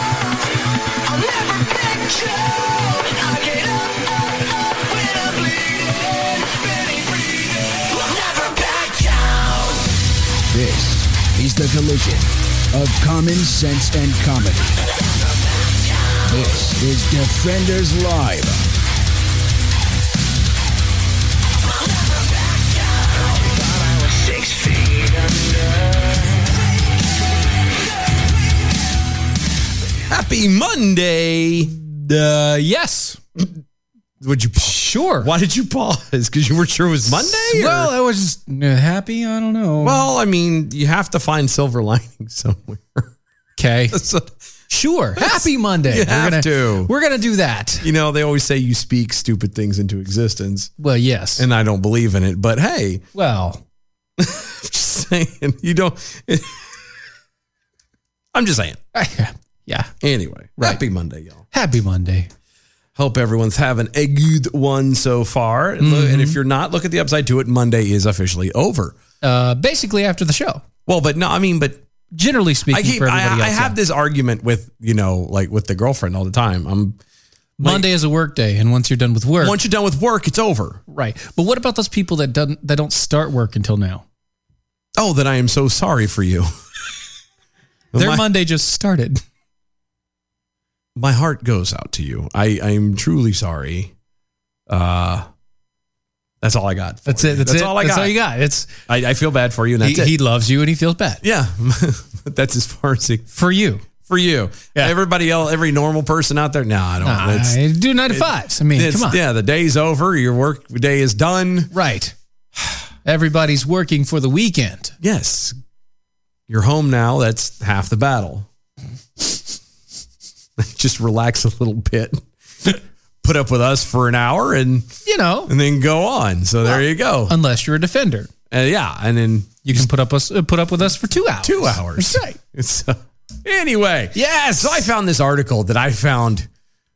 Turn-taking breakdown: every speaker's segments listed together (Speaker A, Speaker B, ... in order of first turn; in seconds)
Speaker A: 10.5-14.8, 16.2-18.6
Speaker B: 30.1-31.7, 34.2-37.9, 39.8-43.1, 43.9-44.3, 45.2-46.9, 47.8-50.7, 51.4-53.0, 54.2-56.8, 58.3-58.8, 60.0-61.4, 63.0-69.0, 70.8-71.8, 72.7-77.0, 77.6-77.9, 79.4-80.8, 85.0-86.5, 87.9-88.2, 91.0-93.9, 94.7-95.3, 96.4-98.2, 98.9-100.1, 101.2-103.3, 104.0-111.7, 115.0-115.6, 116.5-118.5, 120.6-124.9, 125.5-127.3, 128.5-129.9, 131.4-136.5
Speaker C: 31.7-33.2, 34.6-35.3, 37.1-40.0, 43.6-44.0, 44.7-47.9, 50.8-51.4, 53.1-53.6, 58.9-59.9, 61.5-62.3, 65.8-66.4, 69.2-70.6, 72.1-73.8, 77.6-79.5, 80.9-84.0, 87.9-89.2, 97.0-98.7, 99.8-101.2, 103.3-103.8, 107.0-109.2, 111.7-112.1, 113.0-115.0, 125.0-125.5, 126.6-128.3, 129.6-132.3, 134.1-134.9